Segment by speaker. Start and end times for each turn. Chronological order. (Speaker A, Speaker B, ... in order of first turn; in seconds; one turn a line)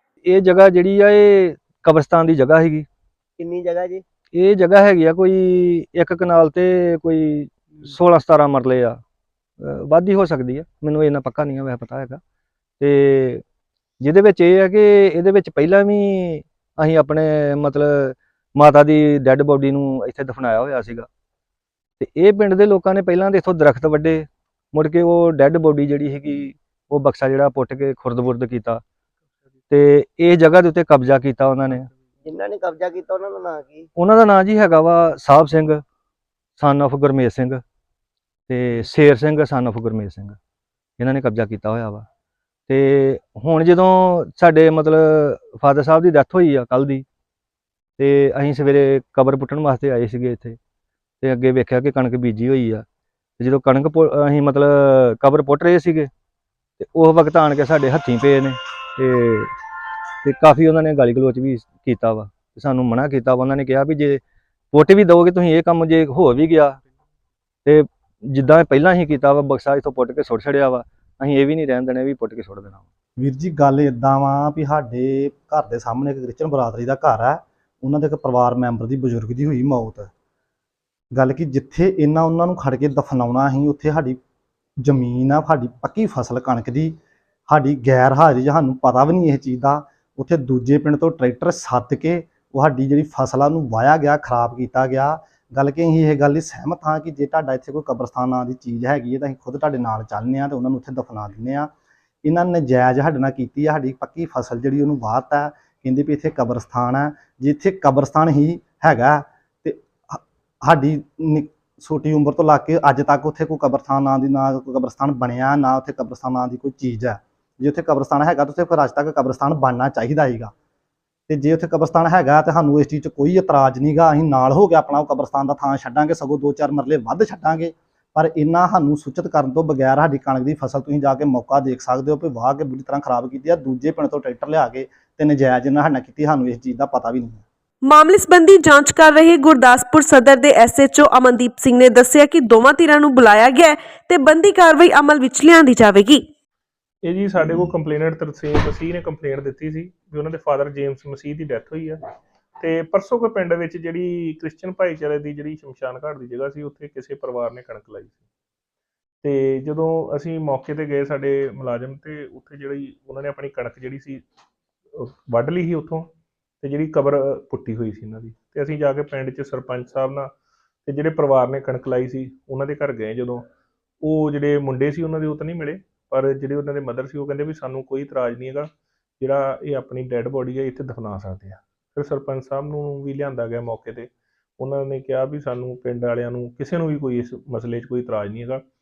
Speaker A: 0.2-2.9
Speaker B: 3.4-4.0
Speaker A: 4.3-9.0
Speaker A: 9.6-12.2
Speaker A: 12.8-13.4
Speaker A: 14.0-21.1
Speaker A: 22.0-28.8
Speaker A: 29.7-31.9
Speaker B: 32.2-33.9
Speaker A: 34.0-35.8
Speaker A: 36.6-37.6
Speaker A: 38.5-40.4
Speaker A: 41.0-42.1
Speaker A: 42.7-47.0
Speaker A: 48.0-50.6
Speaker A: 51.2-52.8
Speaker A: 53.4-56.1
Speaker A: 56.8-59.5
Speaker A: 60.2-64.2
Speaker A: 64.7-66.8
Speaker A: 67.7-72.8
Speaker C: 73.2-80.1
Speaker C: 81.1-84.2
Speaker C: 84.8-87.0
Speaker C: 87.5-101.7
Speaker C: 102.2-120.5
Speaker C: 121.3-137.4
Speaker D: 137.8-146.2
Speaker E: 147.0-152.0
Speaker E: 152.6-158.2
Speaker E: 159.2-164.2
Speaker E: 164.9-166.1
Speaker E: 166.6-170.3
Speaker E: 170.8-173.4
Speaker E: 174.0-188.6